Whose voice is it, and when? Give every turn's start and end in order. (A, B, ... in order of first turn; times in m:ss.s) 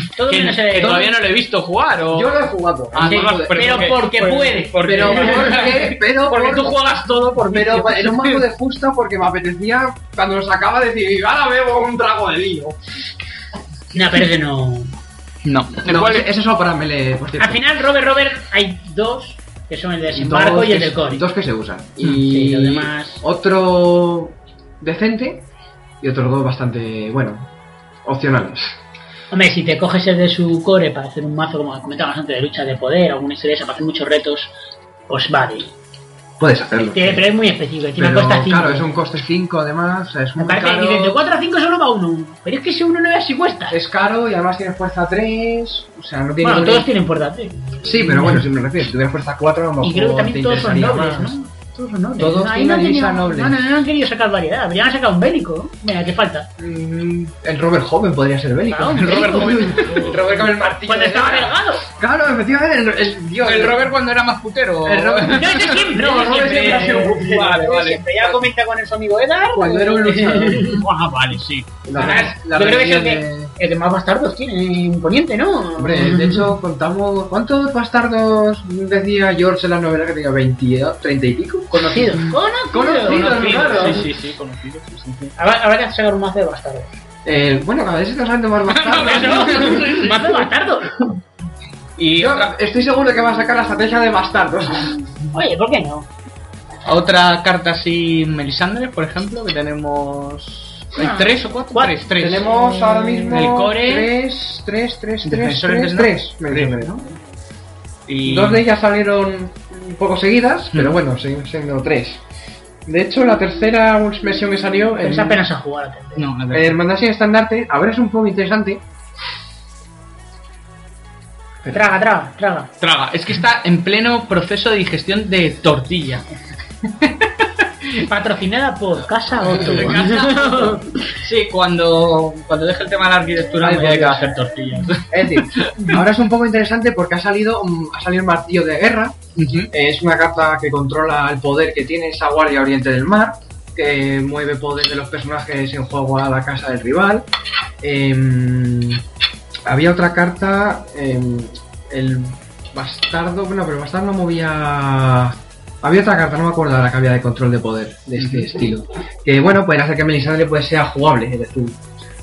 0:00.2-0:01.1 A
0:00.3-0:02.3 B
0:00.8-0:01.1 C
0:02.1-0:03.9 C
0:02.9-0:08.4 B
0:03.0-0:05.6 A
0:04.8-0:06.8 C
0:07.4-0:12.8 C
0:13.9-0:14.9 A
0:15.4-0:16.3 B
0:15.8-0:17.6 C
0:17.4-0:21.2 A
0:20.1-0:25.4 C
0:22.2-0:23.2 A
0:26.0-0:27.5 C
0:28.0-0:28.8 C
0:29.3-0:34.5 A
0:35.1-0:35.7 A
0:36.4-0:37.2 C
0:36.9-0:38.9 A
0:38.0-0:41.2 C
0:40.4-0:43.8 A
0:43.7-0:46.9 C
0:46.4-0:48.4 A
0:47.8-0:51.4 C
0:49.8-0:56.5 A
0:52.2-0:53.7 C
0:56.6-1:03.9 C
0:58.7-1:01.9 A
0:59.0-1:00.1 B
1:03.4-1:08.4 B
1:04.8-1:07.5 C
1:05.3-1:10.8 A
1:09.5-1:10.8 C
1:10.8-1:11.7 B
1:11.8-1:13.5 C
1:11.9-1:16.4 A
1:15.8-1:22.0 C
1:21.7-1:24.0 A
1:22.7-1:24.1 C
1:23.0-1:25.3 B
1:25.4-1:26.9 A
1:27.2-1:30.0 C
1:28.7-1:30.4 B
1:29.0-1:31.0 A
1:32.0-1:32.5 B
1:32.2-1:35.0 C
1:35.3-1:36.1 A
1:36.8-1:42.5 B
1:41.0-1:43.2 A
1:42.2-1:47.0 C
1:43.2-1:44.1 B
1:45.2-1:47.0 B
1:48.1-1:48.6 B
1:48.2-1:52.2 C
1:52.8-1:55.4 C
1:55.0-1:56.2 A
1:56.2-1:56.8 B
1:56.5-1:58.8 C
2:01.7-2:02.7 A
2:02.8-2:06.2 B
2:07.0-2:07.5 B
2:08.1-2:11.0 A
2:09.5-2:16.0 B
2:13.6-2:14.3 C
2:15.1-2:19.2 C
2:19.4-2:19.7 B
2:19.7-2:27.3 C
2:27.8-2:29.0 C
2:29.6-2:41.8 C
2:38.2-2:38.4 B